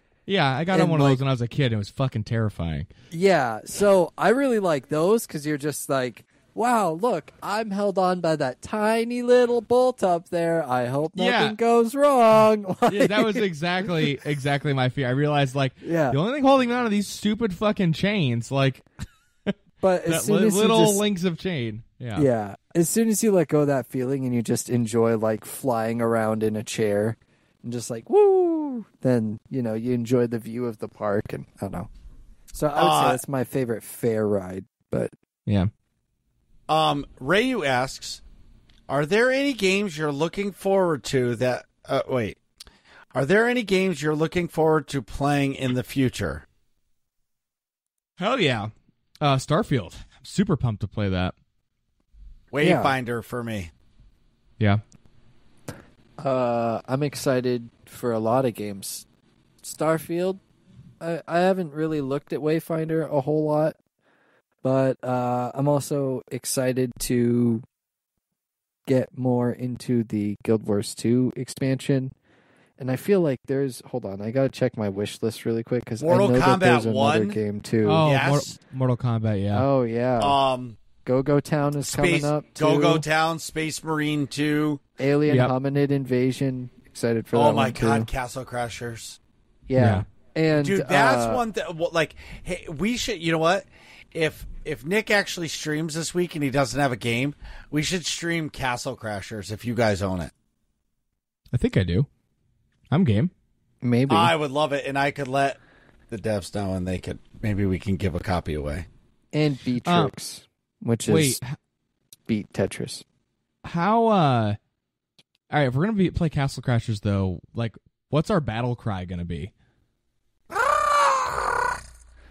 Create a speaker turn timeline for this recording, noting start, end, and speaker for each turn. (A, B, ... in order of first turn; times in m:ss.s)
0:00.3-0:02.9 A
0:00.7-0:01.2 B
0:03.1-0:14.1 B
0:11.2-0:11.6 A
0:12.9-0:18.8 A
0:15.8-0:16.2 B
0:19.8-0:21.0 B
0:20.1-0:22.3 A
0:22.2-0:31.9 B
0:32.5-0:35.1 B
0:32.8-0:33.2 C
0:36.7-0:38.2 C
0:38.9-0:42.4 C
0:43.1-0:46.4 C
0:48.2-0:51.3 A
0:52.5-0:53.7 C
0:52.6-0:53.0 B
0:56.2-0:59.1 B
0:59.6-1:00.4 B
1:01.0-1:03.8 B
1:04.6-1:07.6 B
1:08.9-1:12.1 B
1:12.8-1:18.0 B
1:16.0-1:17.4 C
1:17.8-1:19.7 A
1:18.0-1:18.6 C
1:19.5-1:20.4 B
1:20.2-1:20.8 C
1:21.0-1:23.0 B
1:21.8-1:24.8 C
1:25.0-1:28.1 B
1:25.3-1:25.5 A
1:27.3-1:29.2 C
1:29.7-1:31.4 B
1:29.8-1:30.0 A
1:30.5-1:40.3 C
1:41.5-1:42.1 A
1:42.9-1:43.3 A
1:43.8-1:44.3 B
1:44.1-1:45.6 C
1:46.1-1:48.9 C
1:49.3-1:51.4 B
1:49.9-1:50.1 A
1:51.1-1:51.6 A
1:52.3-1:53.0 B
1:53.6-1:54.6 A
1:55.5-1:59.5 A
2:00.6-2:01.5 C
2:00.8-2:01.2 B